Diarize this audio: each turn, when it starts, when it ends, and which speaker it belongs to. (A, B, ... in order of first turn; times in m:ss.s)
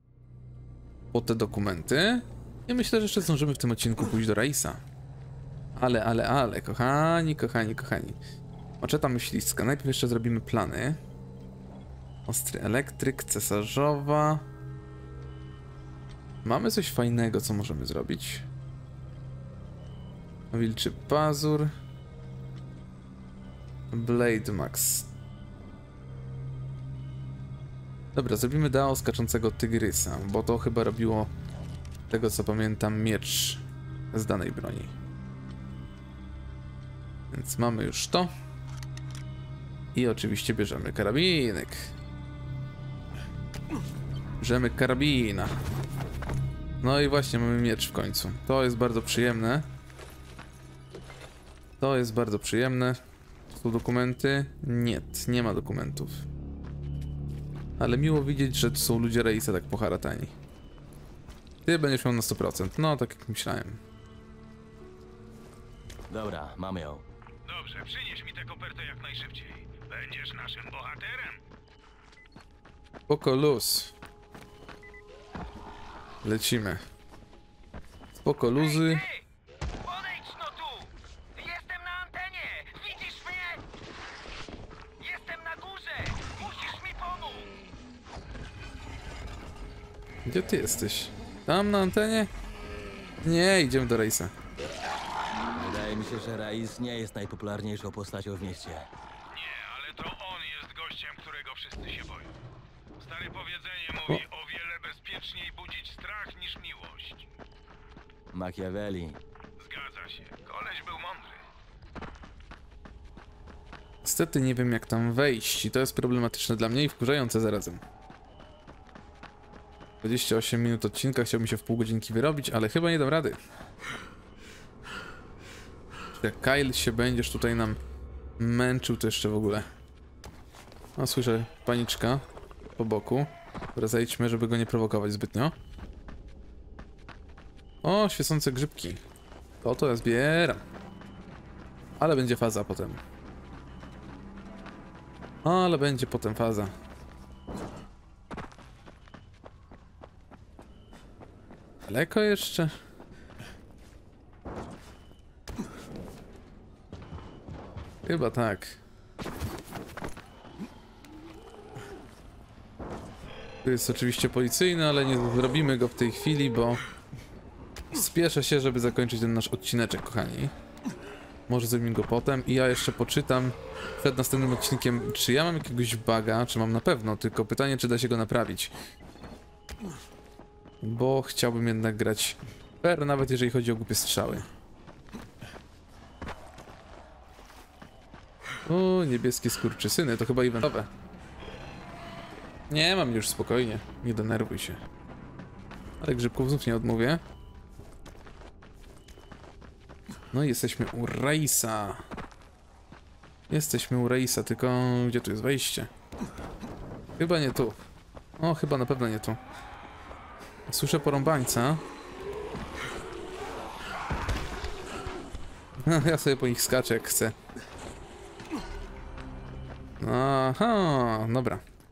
0:01.1-0:04.8 A
0:05.8-0:08.2 A
0:08.8-0:11.0 A
0:12.2-0:14.4 A
0:16.4-0:18.4 A
0:20.5-0:21.7 A
0:23.9-0:25.1 A
0:28.1-0:31.3 A
0:32.1-0:34.9 A
0:37.3-0:38.3 A
0:39.9-0:41.9 A
0:44.4-0:45.5 A
0:46.8-0:49.7 A
0:51.8-0:53.0 A
0:53.5-0:56.2 A
0:57.8-1:00.3 A
1:01.6-1:03.8 A
1:06.1-1:07.0 B
1:07.4-1:11.4 C
1:13.1-1:13.9 A
1:16.2-1:16.8 A
1:18.2-1:19.0 A
1:18.6-1:19.2 C
1:19.8-1:23.6 C
1:25.0-1:27.5 C
1:30.2-1:32.3 A
1:33.2-1:34.3 A
1:35.5-1:38.9 B
1:39.3-1:42.3 C
1:43.0-1:47.3 C
1:48.3-1:49.2 B
1:49.6-1:51.4 C
1:54.0-1:57.8 A
2:00.0-2:03.4 A
2:06.1-2:07.8 A
2:08.4-2:09.7 A
2:11.0-2:12.2 A
2:12.8-2:15.5 A
2:17.8-2:19.0 A
2:19.6-2:20.6 A
2:22.0-2:23.0 A
2:25.4-2:26.7 A
2:31.9-2:32.7 A
2:38.0-2:38.8 A
2:43.6-2:46.8 A
2:47.9-2:50.5 A
2:51.5-2:58.7 A
3:00.8-3:04.5 A
3:08.6-3:10.9 A
3:12.7-3:14.8 A
3:16.0-3:17.2 A
3:20.3-3:22.0 A
3:23.5-3:25.9 A
3:27.2-3:27.8 A
3:28.4-3:29.4 A
3:30.7-3:31.8 A
3:35.8-3:37.3 A
3:40.0-3:41.6 A